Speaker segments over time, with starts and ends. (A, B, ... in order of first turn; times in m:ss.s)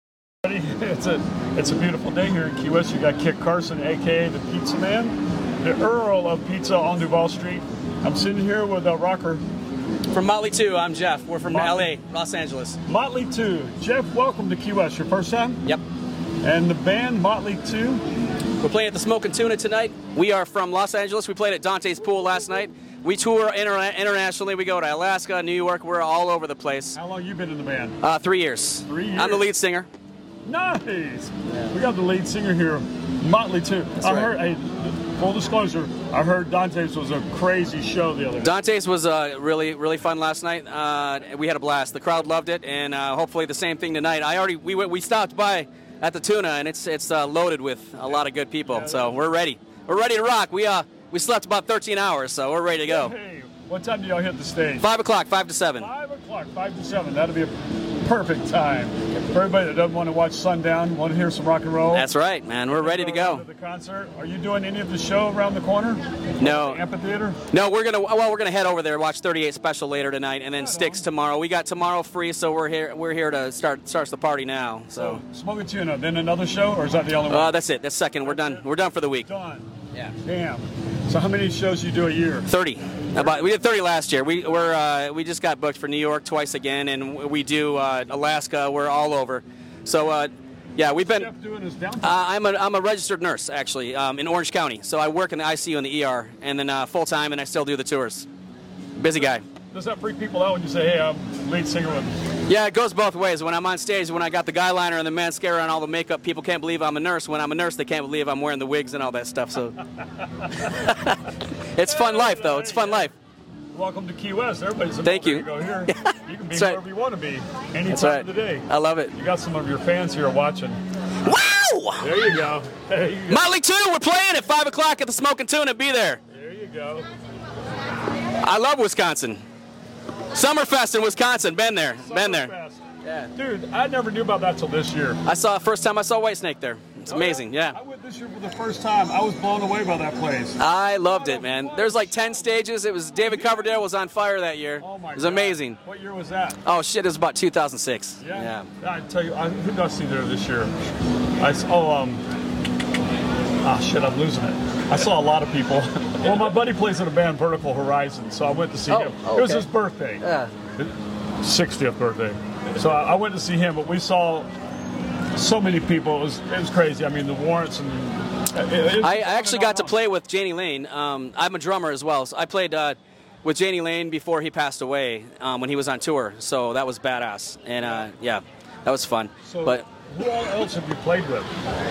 0:00.4-0:09.4 A
0:10.1-0:12.8 B
0:11.5-0:11.9 A
0:12.8-0:15.6 A
0:16.4-0:18.0 A
0:18.6-0:27.0 B
0:26.9-0:28.0 A
0:28.0-0:29.9 B
0:28.8-0:29.5 A
0:30.4-0:38.5 A
0:34.0-0:34.3 B
0:38.4-0:53.1 B
0:48.7-0:49.2 A
0:52.8-0:54.9 A
0:54.8-0:55.9 B
0:55.8-1:02.1 A
1:01.9-1:03.4 B
1:02.7-1:07.4 A
1:06.4-1:06.8 B
1:07.5-1:15.2 B
1:10.5-1:11.1 A
1:14.9-1:17.6 A
1:17.3-1:19.3 B
1:18.2-1:19.7 A
1:20.2-1:22.5 A
1:22.5-1:31.3 B
1:23.1-1:23.6 A
1:31.1-1:32.2 A
1:32.0-1:38.3 B
1:39.0-1:39.4 B
1:39.7-1:42.1 A
1:42.5-1:49.8 B
1:50.6-1:51.2 B
1:51.8-1:53.1 B
1:51.8-1:53.1 A
1:53.7-2:00.8 A
1:55.0-1:56.8 B
1:57.9-1:59.1 B
2:01.2-2:02.2 B
2:02.0-2:03.5 A
2:03.3-2:06.2 B
2:06.3-2:07.0 A
2:08.4-2:09.4 B
2:10.3-2:12.5 B
2:12.0-2:12.8 A
2:13.0-2:13.3 B
2:13.3-2:15.2 A
2:15.2-2:17.8 B
2:17.1-2:23.8 A
2:20.6-2:25.8 B
2:24.8-2:26.6 A
2:26.6-2:28.7 B
2:28.2-2:30.7 A
2:31.4-2:32.2 A
2:33.6-2:40.2 A
2:38.9-2:39.7 B
2:40.2-2:40.5 B
2:40.8-2:44.5 A
2:45.3-2:50.0 A
2:49.0-2:59.8 B
2:57.8-2:58.1 A
2:59.4-3:01.5 A